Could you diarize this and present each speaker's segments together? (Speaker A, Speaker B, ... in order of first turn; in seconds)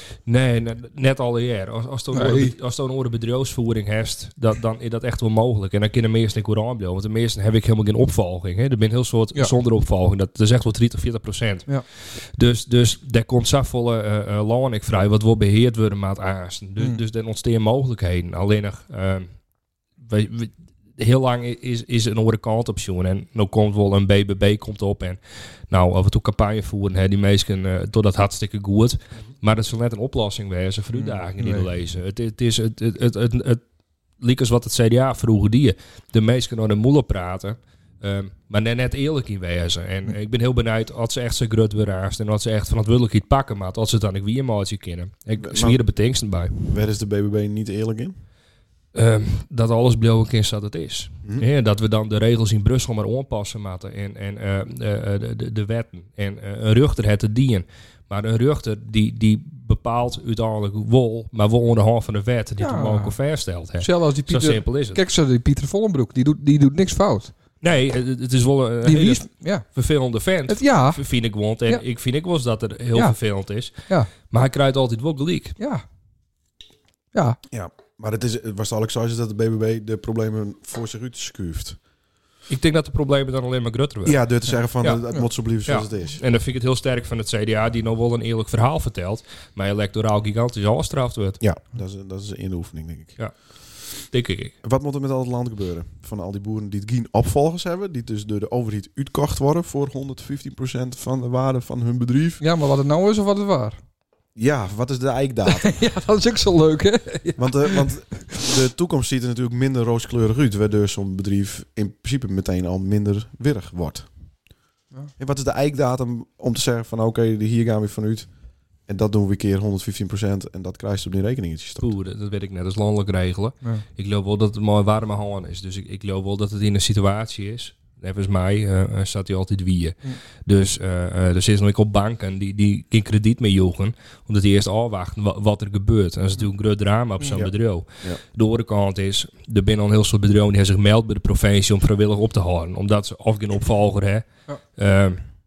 Speaker A: 0.3-19.3, 20.0-25.2, 25.7-33.6, 34.2-46.7, 48.9-65.0, 67.6-75.6, 82.5-84.2, 85.7-91.4, 94.0-94.5, 121.8-144.2, 144.8-145.2
Speaker B: 2.1-2.5, 30.9-31.7, 62.6-63.1, 63.8-67.3, 68.8-69.6, 70.5-71.0, 102.4-103.8, 105.5-107.9
Speaker C: 45.4-45.8, 46.7-48.1, 77.5-81.8, 84.0-86.2, 91.4-93.2, 94.6-102.4, 104.3-105.8, 107.4-114.1, 115.2-118.3, 118.9-121.9, 137.3-138.2